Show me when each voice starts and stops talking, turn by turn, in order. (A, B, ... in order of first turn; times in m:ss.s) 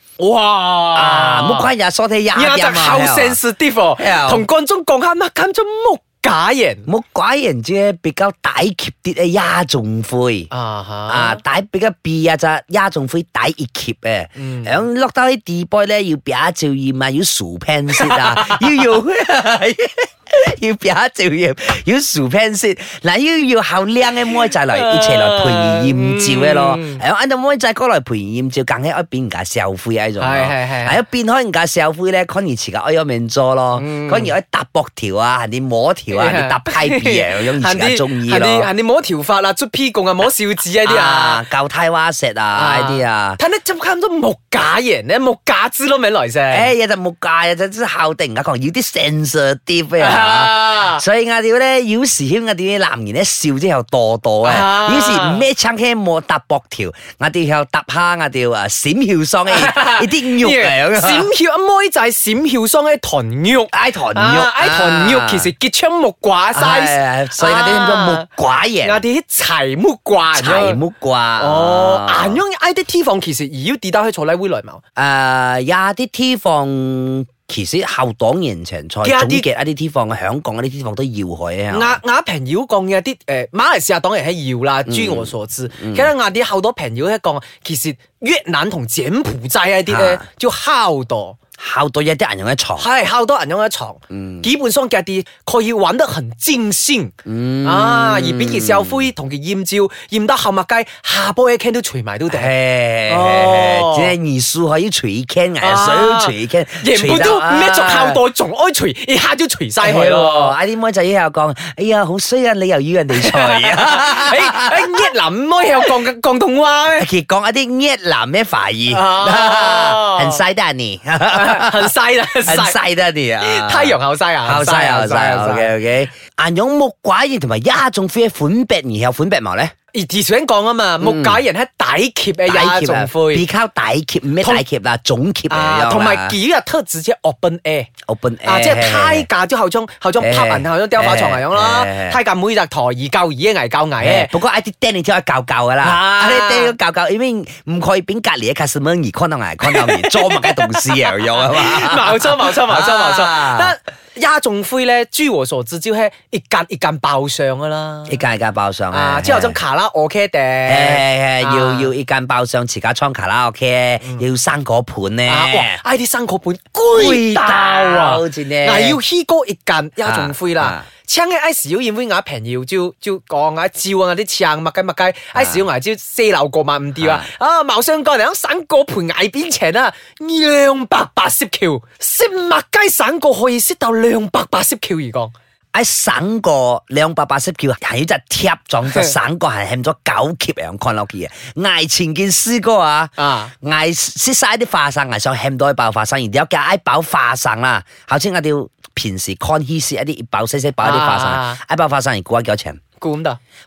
0:00.2-0:01.7 A
0:00.9-0:03.4 B
0:02.3-0:06.9 A
0:04.0-0:04.4 B
0:06.9-0:10.5 B
0:10.5-0:11.4 A
0:11.1-0:38.7 B
0:14.4-0:14.8 A
0:17.9-0:18.7 A
0:24.7-0:27.0 A
0:30.2-0:31.0 A
0:33.7-0:34.3 A
0:36.1-0:41.4 A
0:40.8-0:43.4 B
0:42.5-0:46.7 A
0:46.5-1:01.3 B
0:50.0-0:51.0 A
0:54.4-0:55.4 A
0:59.5-1:08.3 A
1:03.7-1:05.5 B
1:06.5-1:09.0 B
1:08.8-1:10.8 A
1:10.3-1:12.4 B
1:11.4-1:14.8 A
1:15.0-1:22.0 B
1:19.0-1:19.4 A
1:21.7-1:31.4 A
1:24.9-1:26.1 B
1:29.9-1:30.2 B
1:31.6-1:32.9 B
1:32.8-1:42.5 A
1:34.1-1:34.5 B
1:37.2-1:39.1 B
1:42.3-1:48.2 B
1:43.1-1:44.1 A
1:45.6-1:50.5 A
1:49.8-1:55.1 B
1:53.1-1:57.1 A
1:57.0-2:01.9 B
1:58.9-2:00.4 A
2:01.3-2:02.8 A
2:02.4-2:09.7 B
2:03.4-2:05.7 A
2:09.9-2:13.4 A
2:11.0-2:11.4 B
2:12.4-2:16.3 B
2:15.5-2:17.9 A
2:18.1-2:19.3 B
2:18.4-2:24.3 A
2:20.2-2:22.2 B
2:24.0-2:33.7 B
2:25.8-2:26.7 A
2:29.6-2:38.2 A
2:38.1-2:39.6 B
2:38.9-2:41.9 A
2:40.6-2:45.8 B
2:45.2-3:05.3 A
2:46.9-2:49.0 B
2:50.0-2:50.8 B
2:55.3-2:55.6 B
2:57.0-2:57.3 B
3:05.7-3:22.8 B
3:08.8-3:09.1 A
3:13.2-3:13.5 A
3:20.8-3:21.6 A
3:23.0-3:23.4 A